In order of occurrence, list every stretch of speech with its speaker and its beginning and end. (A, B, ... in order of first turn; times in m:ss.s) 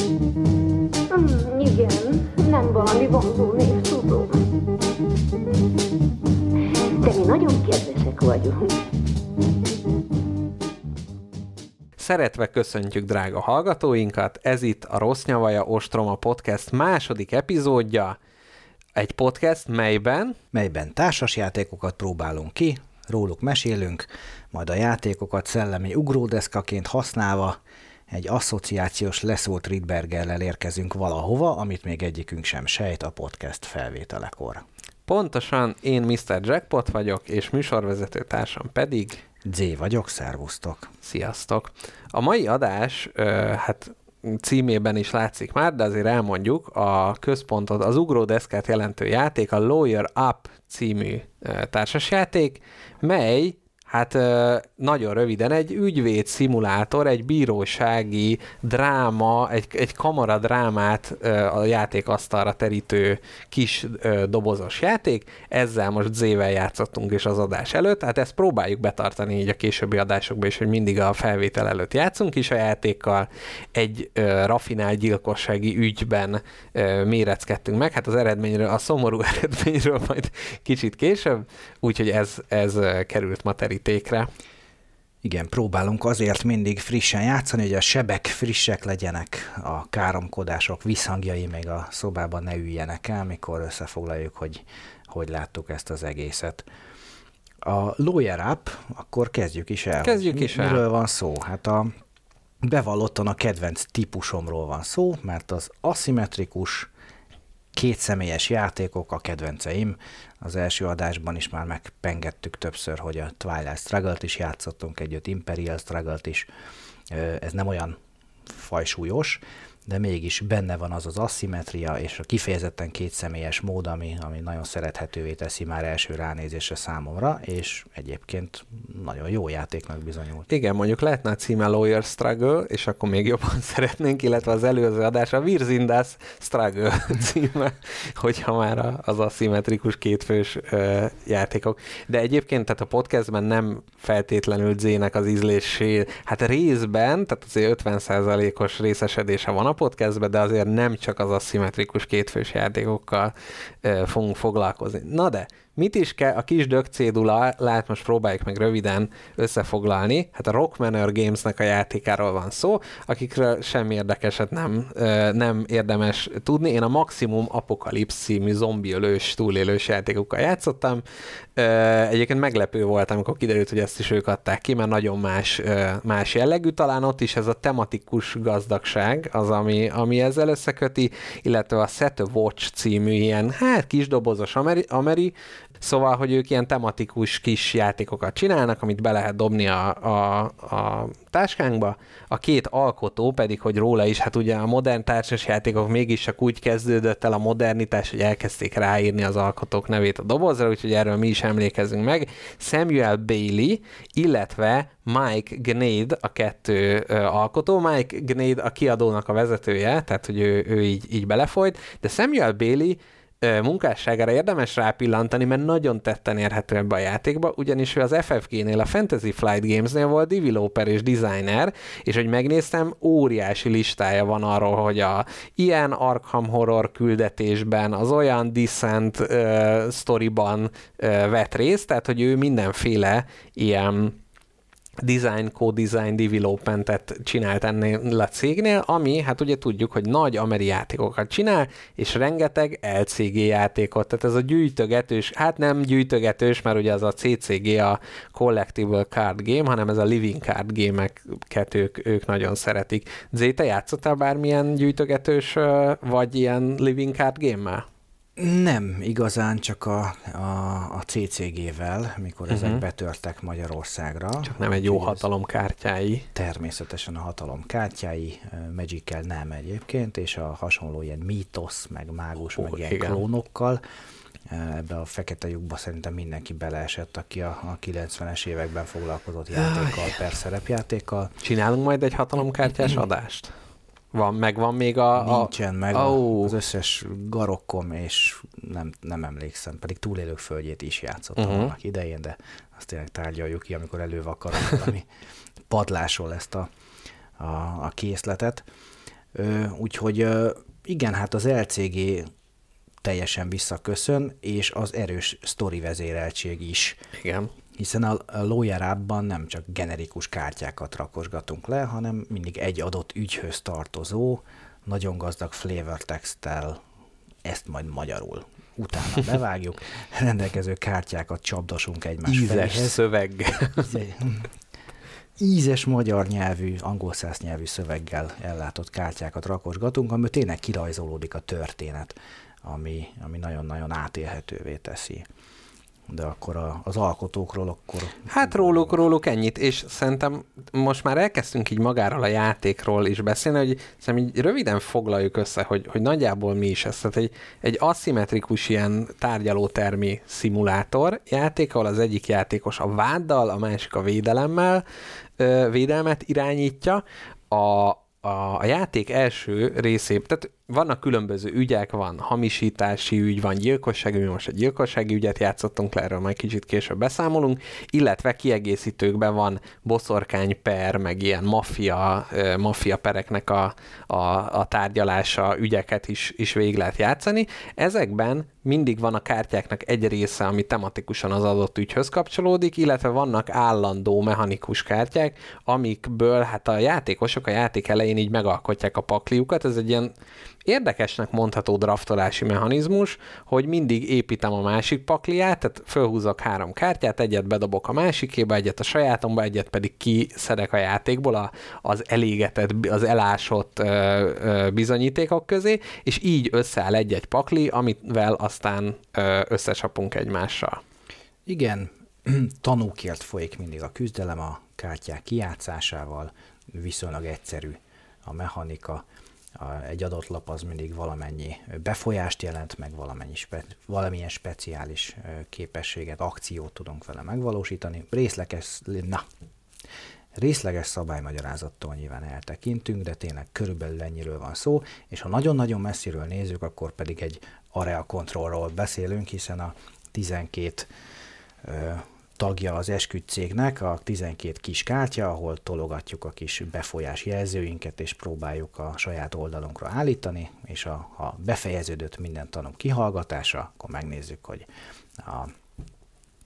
0:01.1-0:04.4 A
0:07.0-0:08.8 A
0:12.0-0:18.2 B
0:19.0-0:20.4 B
0:20.5-0:34.6 C
0:35.1-0:39.2 B
0:39.4-0:40.9 C
0:41.0-1:24.3 B
1:25.2-1:36.6 C
1:37.6-1:41.9 C
1:40.0-1:40.8 B
1:42.6-1:46.9 C
1:47.7-1:56.5 C
1:57.1-2:10.5 C
2:10.5-2:51.0 B
2:51.6-3:54.2 B
3:55.0-4:17.8 B
4:18.4-4:25.2 C
4:22.5-4:22.8 B
4:24.4-4:26.3 B
4:26.3-4:33.8 C
4:32.6-4:33.2 B
4:34.5-4:41.3 C
4:39.6-4:40.1 B
4:41.4-4:43.5 B
4:44.1-4:46.5 B
4:45.1-4:55.1 C
4:51.4-4:51.7 B
4:55.7-4:56.7 C
4:57.4-4:58.6 C
4:59.3-5:02.3 C
5:03.0-5:07.0 C
5:07.2-5:07.5 B
5:07.7-5:16.8 C
5:17.4-5:23.0 C
5:22.2-5:23.9 B
5:23.8-5:24.5 C
5:25.4-5:35.2 C
5:36.1-5:39.0 C
5:38.3-5:54.8 B
5:55.4-6:30.1 B
6:30.6-6:50.8 B
6:51.4-6:59.0 C
6:59.6-7:09.2 C
7:10.3-7:20.9 C
7:21.6-7:34.7 C
7:35.2-7:35.5 C